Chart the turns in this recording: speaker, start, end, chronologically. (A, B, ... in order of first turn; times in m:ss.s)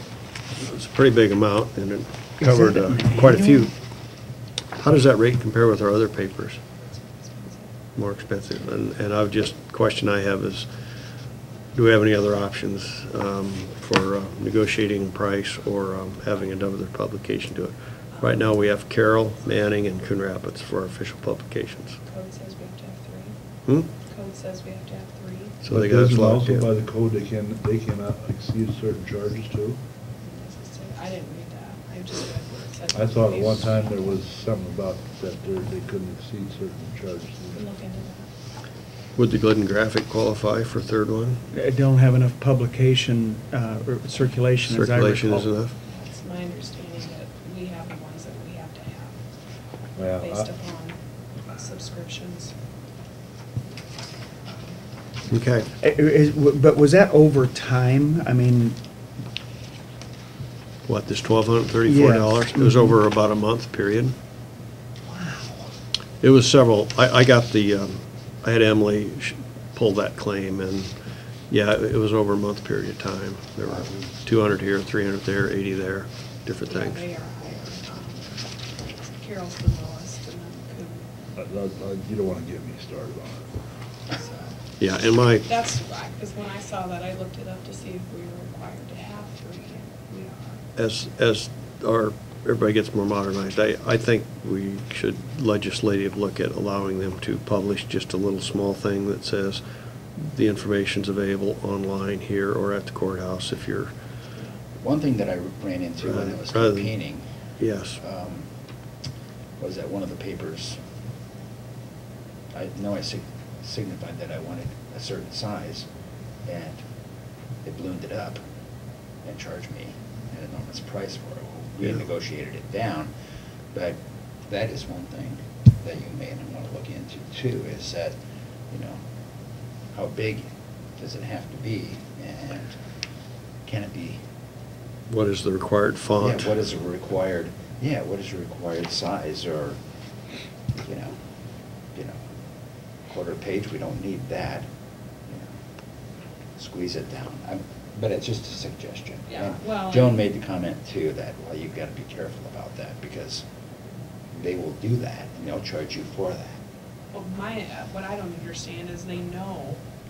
0:00.5-0:03.7 A
0:02.4-0:03.7 B
0:04.7-0:06.6 A
0:06.9-0:07.7 C
0:08.0-0:10.7 A
0:11.7-0:22.0 A
0:18.1-0:18.7 C
0:22.0-0:23.4 C
0:24.0-0:25.6 C
0:25.6-0:26.7 A
0:25.7-0:29.8 D
0:30.2-0:34.2 C
0:32.9-0:37.6 D
0:37.5-0:38.3 C
0:39.2-0:41.4 A
0:41.5-0:45.5 B
0:44.6-0:45.7 A
0:45.8-0:49.2 C
0:50.0-0:50.5 D
0:50.2-0:51.0 C
0:51.5-0:52.5 C
0:55.3-0:55.7 A
0:55.8-0:58.8 B
1:00.8-1:04.1 A
1:01.8-1:02.9 B
1:06.2-1:10.9 A
1:11.5-1:17.0 A
1:13.6-1:14.1 E
1:16.6-1:18.5 C
1:19.0-1:21.1 C
1:21.4-1:23.6 D
1:24.1-1:24.6 C
1:24.8-1:25.5 A
1:25.4-1:30.6 C
1:30.8-1:39.6 A
1:40.2-1:43.9 A
1:44.8-1:47.2 E
1:46.0-1:46.9 A
1:47.6-1:48.0 A
1:48.0-1:48.5 E
1:49.6-1:50.8 E
1:52.5-1:55.9 E
1:56.4-1:56.8 E
1:57.6-1:58.4 E
1:59.2-2:03.1 E
2:04.5-2:08.2 E
2:08.7-2:09.0 E
2:09.9-2:12.8 E
2:13.6-2:14.2 E
2:15.1-2:16.5 A
2:16.2-2:19.8 E
2:20.8-2:21.1 E
2:23.1-2:24.7 E
2:26.6-2:33.4 E
2:29.3-2:30.2 C
2:34.3-2:36.6 E
2:37.1-2:39.8 C